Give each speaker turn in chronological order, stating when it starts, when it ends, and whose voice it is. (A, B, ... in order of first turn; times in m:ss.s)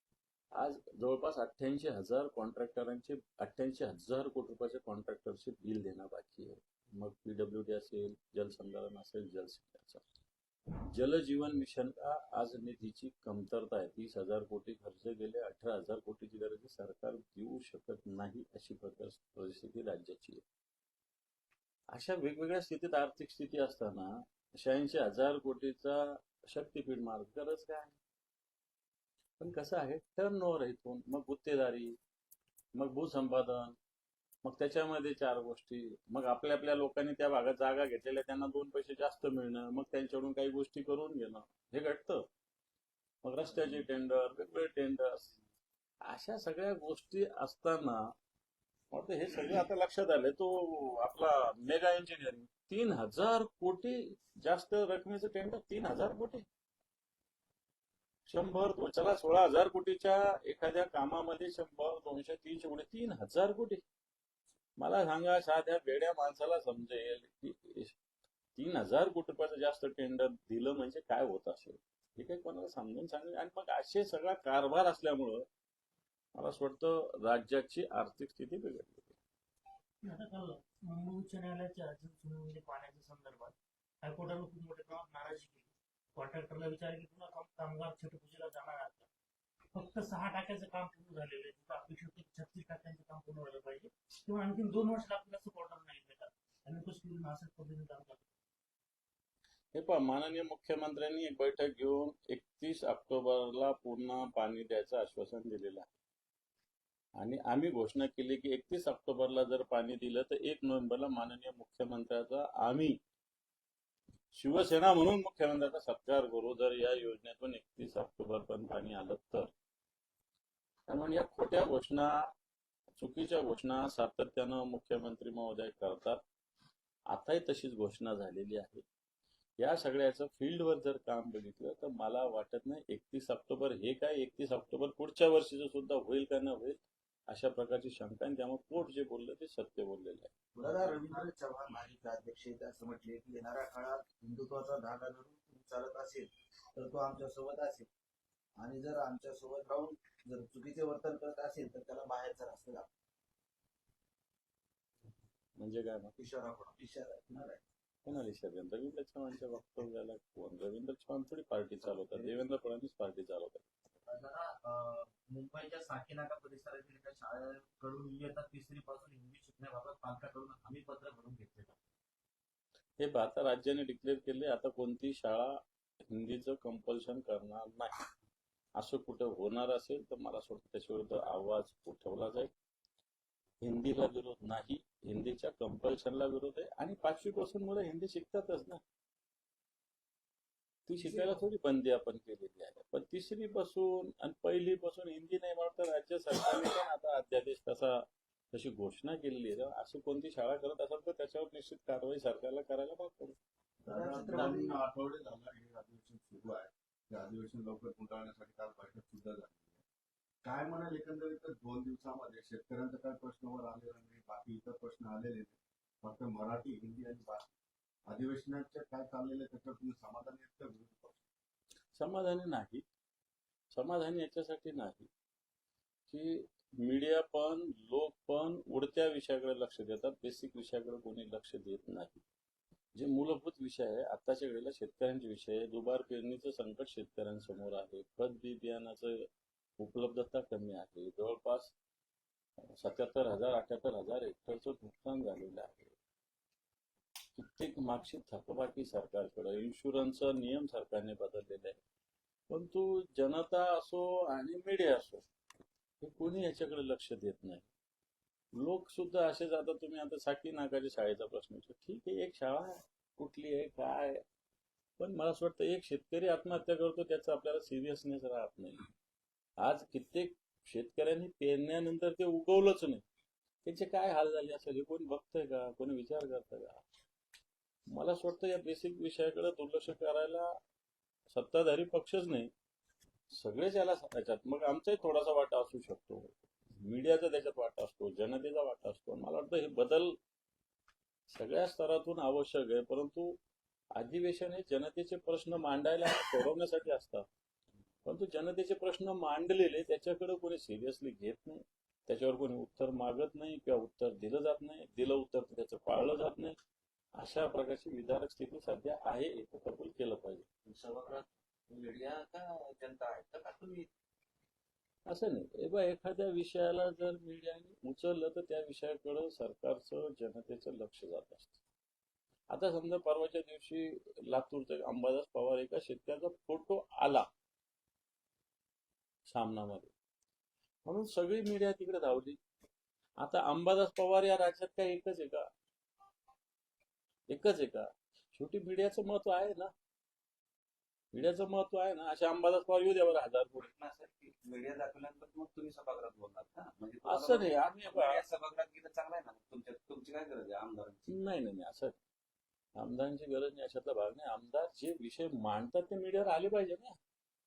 0:00.5-0:10.0 A
0:10.9-0:20.4 A
0:21.9-0:28.0 A
0:29.4-0:32.0 A
0:32.7-0:33.8 A
0:34.4-0:42.3 A
0:43.2-0:45.3 A
0:46.0-0:48.1 A
0:48.9-0:56.4 A
0:58.3-1:03.8 A
1:04.8-1:07.9 A
1:08.6-1:15.4 A
1:16.4-1:19.1 A
1:20.0-1:29.1 B
1:29.7-1:38.2 B
1:39.7-1:45.9 A
1:47.2-1:53.0 A
1:54.3-1:59.5 A
2:00.9-2:02.3 A
2:03.0-2:06.2 A
2:07.1-2:08.8 A
2:09.6-2:16.8 A
2:17.3-2:20.3 A
2:20.5-2:27.9 C
2:28.6-2:32.9 C
2:35.6-2:36.1 A
2:36.2-2:37.6 C
2:38.0-2:43.7 A
2:44.0-2:51.8 D
2:53.0-2:58.0 A
2:58.8-3:02.5 A
3:03.6-3:08.8 A
3:10.9-3:23.4 A
3:23.8-3:29.8 E
3:23.8-3:24.8 C
3:30.4-3:37.5 E
3:38.1-3:41.2 E
3:42.0-3:42.8 A
3:43.7-3:45.1 A
3:46.1-3:52.2 A
3:52.9-3:59.3 A
3:59.8-4:01.7 A
4:02.6-4:05.9 A
4:07.4-4:11.8 A
4:12.5-4:15.2 A
4:16.0-4:17.7 A
4:18.6-4:24.2 A
4:25.0-4:28.8 A
4:29.6-4:33.0 A
4:33.6-4:36.8 A
4:37.9-4:40.6 A
4:41.3-4:42.5 A
4:43.3-4:50.2 A
4:51.3-4:53.4 A
4:53.9-4:57.2 A
4:58.0-5:06.6 A
5:07.2-5:10.4 A
5:10.6-5:13.9 F
5:15.1-5:21.6 A
5:22.5-5:27.3 A
5:29.3-5:29.9 A
5:30.8-5:32.4 A
5:33.2-5:35.5 A
5:37.3-5:39.7 A
5:41.1-5:43.7 A
5:43.5-5:51.2 F
5:47.0-5:48.2 A
5:51.1-5:52.0 A
5:52.8-5:57.0 A